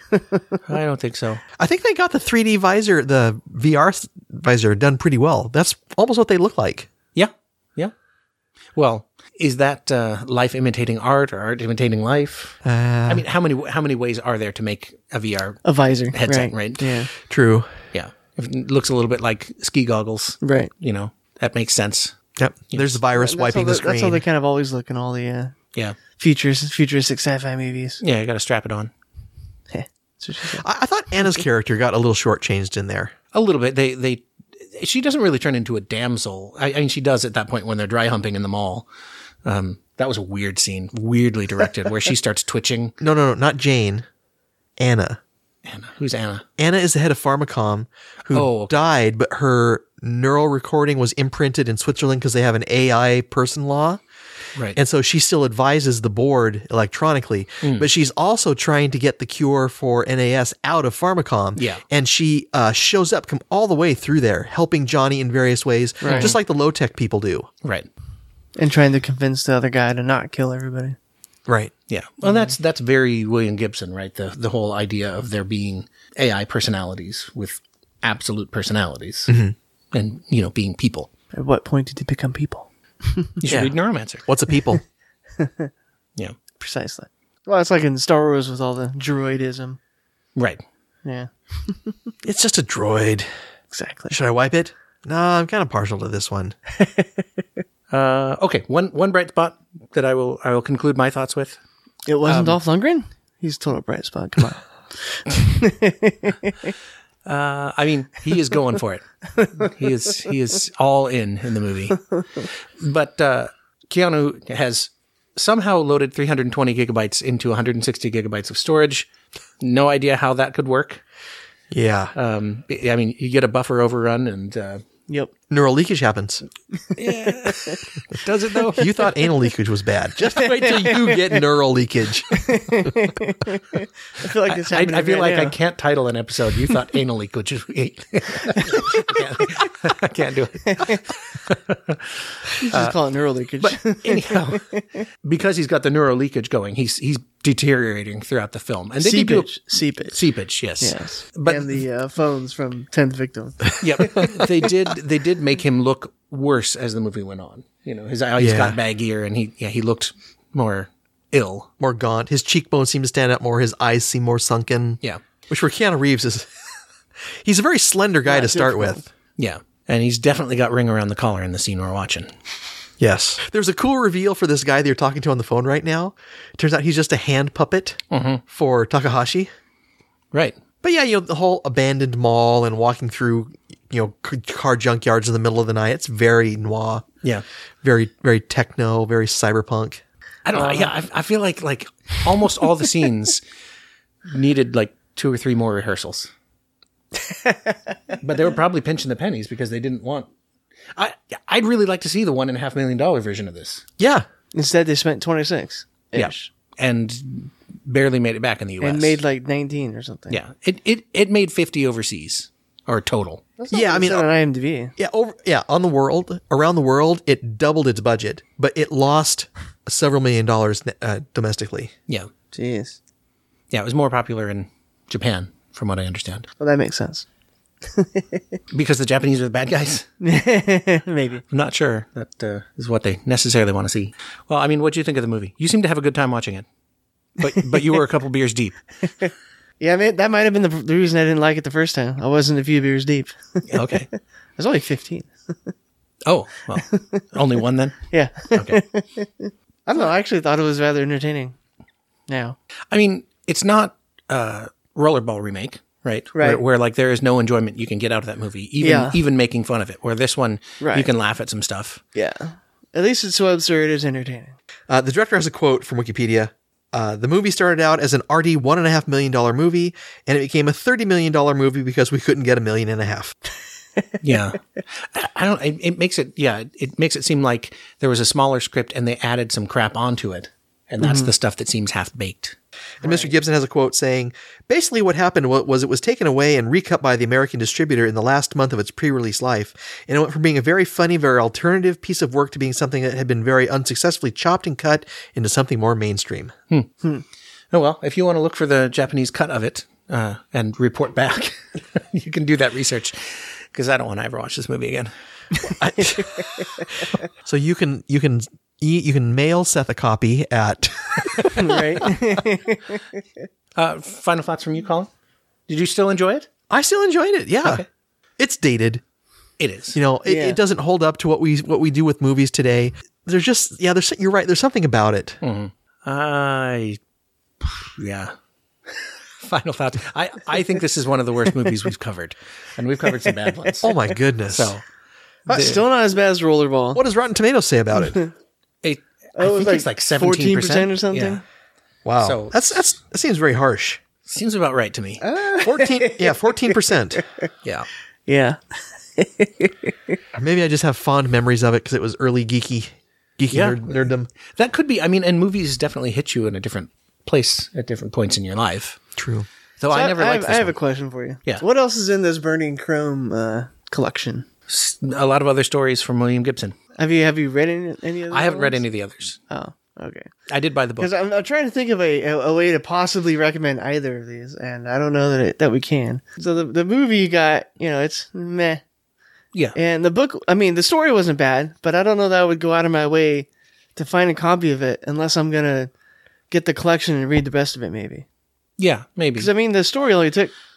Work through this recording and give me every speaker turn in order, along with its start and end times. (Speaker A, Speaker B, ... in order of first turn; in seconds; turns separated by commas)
Speaker A: 0.1-0.4, Speaker B: 0.7-1.4, Speaker C: 1.6-6.9, Speaker B: 7.1-7.9, Speaker B: 8.7-16.9, Speaker C: 12.6-13.2, Speaker A: 15.6-17.1, Speaker C: 17.3-17.7, Speaker B: 17.9-22.1, Speaker A: 20.4-20.7, Speaker C: 22.4-24.2, Speaker A: 23.1-25.5, Speaker A: 26.2-28.0, Speaker B: 28.0-28.9, Speaker A: 29.7-30.6, Speaker C: 30.5-33.1, Speaker B: 33.3-38.9, Speaker B: 39.4-42.9, Speaker C: 43.0-44.0, Speaker C: 44.8-45.2, Speaker B: 45.6-46.4, Speaker C: 46.6-54.0, Speaker B: 48.3-48.8, Speaker C: 54.7-67.5, Speaker B: 57.6-57.9, Speaker B: 61.5-61.8, Speaker A: 66.0-66.3, Speaker B: 66.0-66.3, Speaker A: 68.5-71.0, Speaker C: 71.5-71.7, Speaker B: 71.9-79.3, Speaker C: 79.3-79.5, Speaker B: 79.9-81.1, Speaker A: 81.3-83.3, Speaker B: 83.4-84.2, Speaker C: 83.5-83.7, Speaker C: 84.2-84.8, Speaker A: 85.4-85.7, Speaker A: 86.6-89.8, Speaker B: 90.3-90.6, Speaker A: 91.0-92.0, Speaker C: 92.2-93.3, Speaker A: 93.7-94.2, Speaker C: 94.1-96.5, Speaker B: 97.9-101.6, Speaker A: 102.1-106.7, Speaker B: 102.2-102.6, Speaker B: 107.2-119.1, Speaker B: 119.6-121.0, Speaker C: 121.7-122.1, Speaker B: 122.1-124.8, Speaker C: 125.5-126.4, Speaker B: 127.0-128.9, Speaker A: 127.4-127.8, Speaker C: 128.8-132.9, Speaker A: 130.3-131.2, Speaker A: 132.3-135.5, Speaker B: 134.5-142.9, Speaker A: 138.6-139.2, Speaker A: 140.7-141.0, Speaker A: 142.6-145.0, Speaker B: 143.6-144.7, Speaker B: 145.2-151.7, Speaker A: 149.0-150.2, Speaker A: 150.8-154.3, Speaker B: 153.8-161.7, Speaker C: 158.4-158.8, Speaker C: 161.8-166.5, Speaker C: 167.4-169.1, Speaker A: 168.2-169.0, Speaker B: 169.4-172.3, Speaker C: 173.0-179.5, Speaker B: 178.1-178.4, Speaker B: 180.3-180.6, Speaker C: 180.8-187.1, Speaker C: 187.8-190.0, Speaker B: 190.4-193.4, Speaker A: 190.6-190.9, Speaker B: 194.2-196.3, Speaker A: 197.3-197.8, Speaker B: 198.2-200.3, Speaker B: 200.9-203.8, Speaker C: 204.0-204.2, Speaker A: 204.5-206.5, Speaker B: 206.1-209.2, Speaker A: 208.8-210.4, Speaker B: 210.3-213.5, Speaker A: 213.6-214.9, Speaker C: 213.7-214.3, Speaker C: 215.0-221.9, Speaker A: 222.5-223.0, Speaker B: 223.7-226.5, Speaker A: 226.6-227.2, Speaker A: 227.9-228.4, Speaker B: 228.7-230.1, Speaker A: 230.2-231.4, Speaker B: 231.5-236.7, Speaker B: 237.4-238.8, Speaker A: 239.2-243.9, Speaker B: 243.7-244.1, Speaker A: 244.6-245.7, Speaker B: 246.2-248.8, Speaker A: 246.9-247.2, Speaker A: 248.1-251.6, Speaker A: 252.3-252.6, Speaker B: 252.9-262.0, Speaker A: 256.3-256.6, Speaker A: 258.8-259.1, Speaker A: 260.8-261.1, Speaker A: 262.1-264.6, Speaker C: 264.9-273.3, Speaker B: 274.2-282.6, Speaker A: 281.0-281.3, Speaker A: 283.0-283.3, Speaker C: 283.0-296.5, Speaker B: 297.7-305.1, Speaker A: 305.6-307.0, Speaker C: 305.8-306.4, Speaker C: 307.4-312.1, Speaker A: 311.5-313.0, Speaker B: 313.8-315.1, Speaker B: 315.7-316.5, Speaker C: 316.7-317.8, Speaker C: 318.4-319.0, Speaker B: 319.6-320.0, Speaker C: 319.9-325.4, Speaker A: 320.2-320.6, Speaker B: 325.4-327.0, Speaker B: 327.6-328.3, Speaker B: 329.4-333.9, Speaker C: 333.8-334.7, Speaker B: 334.5-334.8, Speaker A: 335.5-337.0, Speaker B: 335.5-335.8, Speaker C: 336.9-338.2, Speaker B: 338.8-341.4, Speaker A: 339.4-341.4, Speaker C: 342.0-344.0, Speaker B: 342.2-342.6, Speaker B: 344.2-345.2, Speaker A: 345.2-346.4, Speaker C: 345.6-347.2, Speaker A: 347.1-347.4, Speaker A: 348.3-350.2, Speaker C: 350.3-354.3, Speaker B: 353.5-353.9, Speaker B: 354.5-359.0, Speaker C: 359.2-359.5, Speaker B: 359.8-360.8, Speaker A: 359.9-364.4, Speaker B: 364.7-366.8, Speaker A: 366.9-368.8, Speaker B: 368.3-369.4, Speaker A: 369.5-370.3, Speaker B: 370.5-371.1, Speaker A: 371.0-378.8, Speaker A: 379.7-385.9, Speaker A: 386.5-388.2, Speaker B: 388.8-389.5, Speaker A: 389.4-390.5